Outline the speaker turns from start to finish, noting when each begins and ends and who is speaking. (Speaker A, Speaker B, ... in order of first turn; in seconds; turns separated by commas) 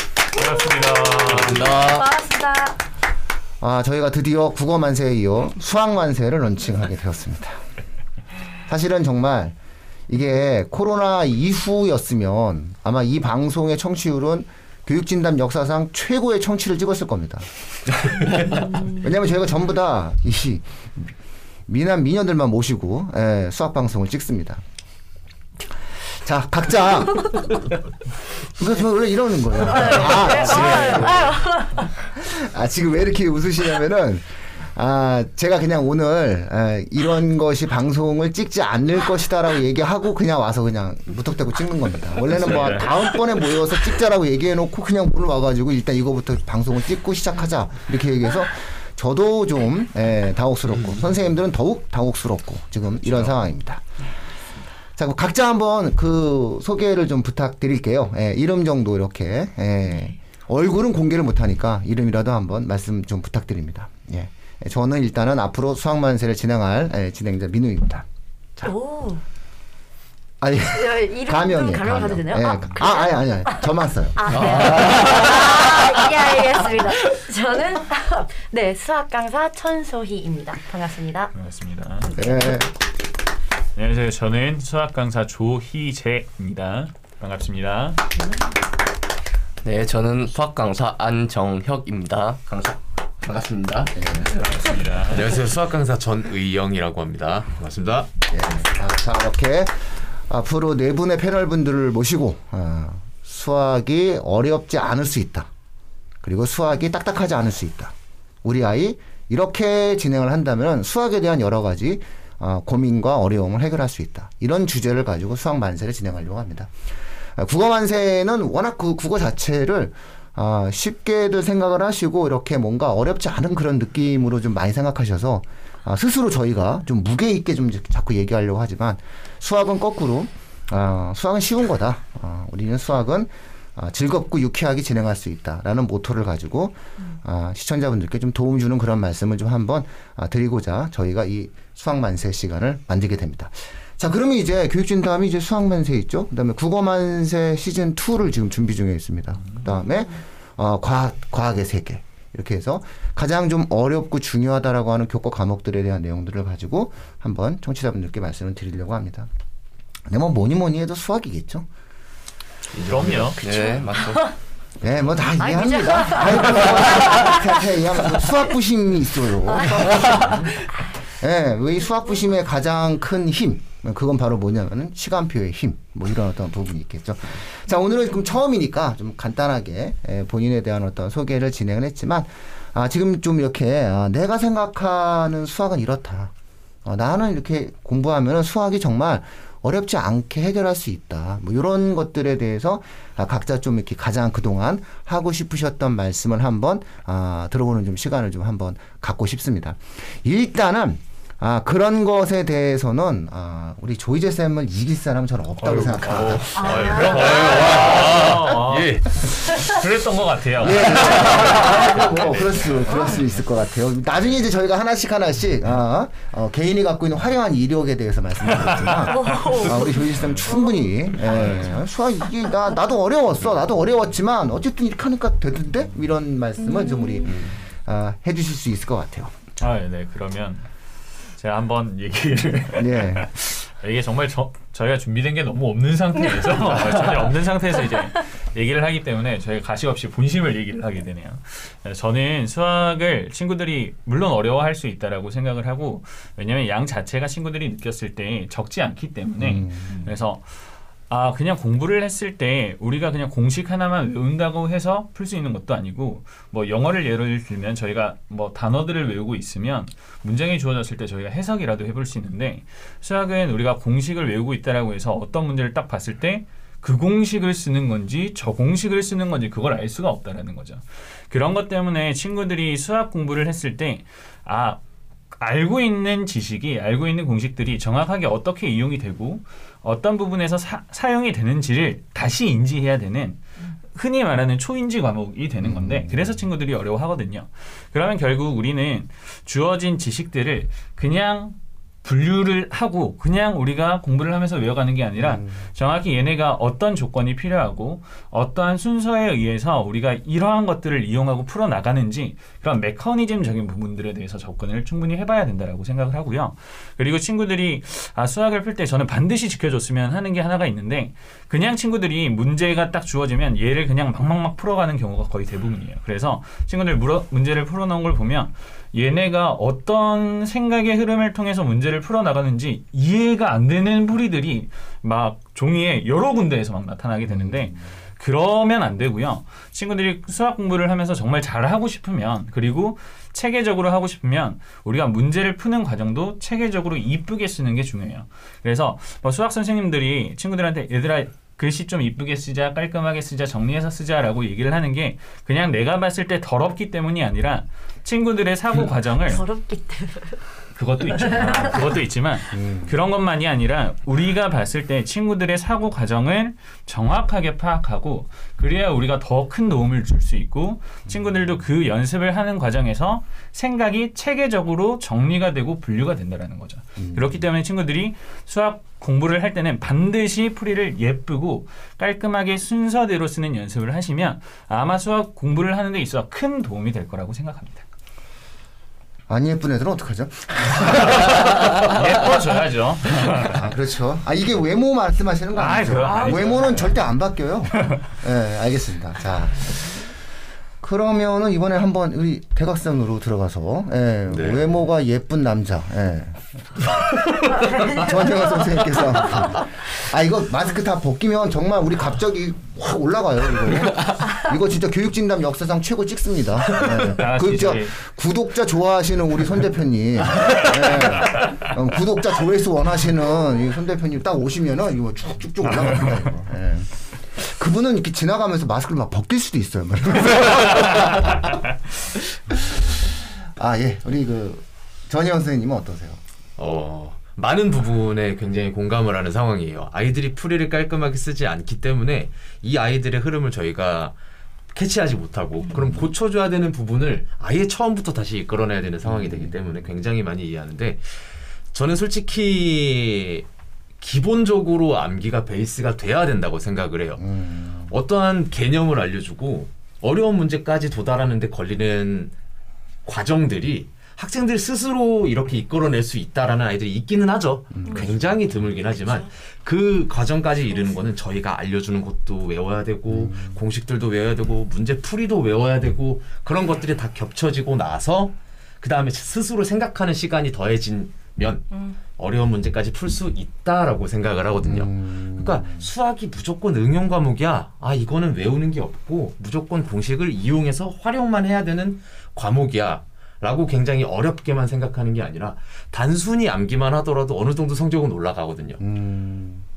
Speaker A: 0.4-1.7, Speaker B: 0.6-2.8, Speaker C: 1.3-2.1, Speaker D: 3.6-7.6, Speaker D: 8.7-9.6, Speaker D: 10.1-17.5, Speaker D: 18.8-21.1, Speaker D: 21.7-24.6, Speaker D: 26.0-27.5, Speaker D: 28.6-31.3, Speaker B: 29.6-31.9, Speaker E: 30.5-30.9, Speaker D: 32.0-54.1, Speaker A: 42.4-43.0, Speaker D: 55.0-68.1, Speaker B: 68.6-69.2, Speaker D: 70.4-75.2, Speaker B: 70.7-81.3, Speaker C: 74.3-75.7, Speaker A: 81.3-82.1, Speaker D: 82.2-82.7, Speaker A: 83.8-88.1, Speaker C: 89.6-94.6, Speaker D: 94.0-94.3, Speaker A: 94.4-95.4, Speaker E: 95.1-98.1, Speaker D: 98.3-105.5, Speaker D: 106.2-116.7, Speaker D: 117.4-159.3, Speaker D: 160.1-161.7, Speaker E: 162.7-163.4, Speaker A: 162.8-163.4, Speaker C: 163.4-164.3, Speaker B: 163.5-164.3, Speaker D: 164.8-170.5, Speaker B: 165.4-167.6, Speaker B: 169.5-170.7, Speaker D: 171.1-186.3, Speaker D: 186.8-206.9, Speaker A: 205.6-211.7, Speaker B: 206.6-207.7, Speaker E: 206.7-209.7, Speaker D: 210.6-229.3, Speaker B: 219.1-220.8, Speaker A: 221.3-221.6, Speaker B: 226.6-227.3, Speaker A: 229.6-230.7, Speaker A: 231.4-274.8, Speaker D: 232.8-233.3, Speaker D: 249.4-250.0, Speaker A: 275.3-349.4, Speaker D: 285.6-286.4, Speaker D: 295.2-295.6, Speaker D: 327.3-327.7, Speaker B: 349.2-350.4, Speaker A: 350.8-377.9, Speaker B: 351.3-351.7, Speaker D: 352.5-352.9, Speaker D: 367.0-367.4, Speaker D: 379.3-382.2, Speaker A: 380.9-383.6, Speaker D: 383.4-390.0, Speaker A: 385.6-387.0, Speaker D: 390.8-396.6, Speaker E: 394.3-394.6, Speaker D: 397.8-421.6, Speaker A: 406.8-408.0, Speaker A: 411.2-411.6, Speaker D: 422.5-426.2, Speaker E: 426.6-434.1, Speaker E: 434.7-441.2, Speaker D: 435.7-436.1, Speaker D: 439.0-439.6, Speaker E: 441.7-443.5, Speaker E: 444.0-447.3, Speaker D: 447.2-447.9, Speaker E: 447.9-452.3, Speaker E: 453.1-488.8, Speaker D: 457.7-458.1, Speaker B: 457.9-458.2, Speaker B: 458.8-459.3, Speaker B: 460.6-461.1, Speaker D: 463.1-463.6, Speaker D: 474.6-475.9, Speaker D: 488.8-489.7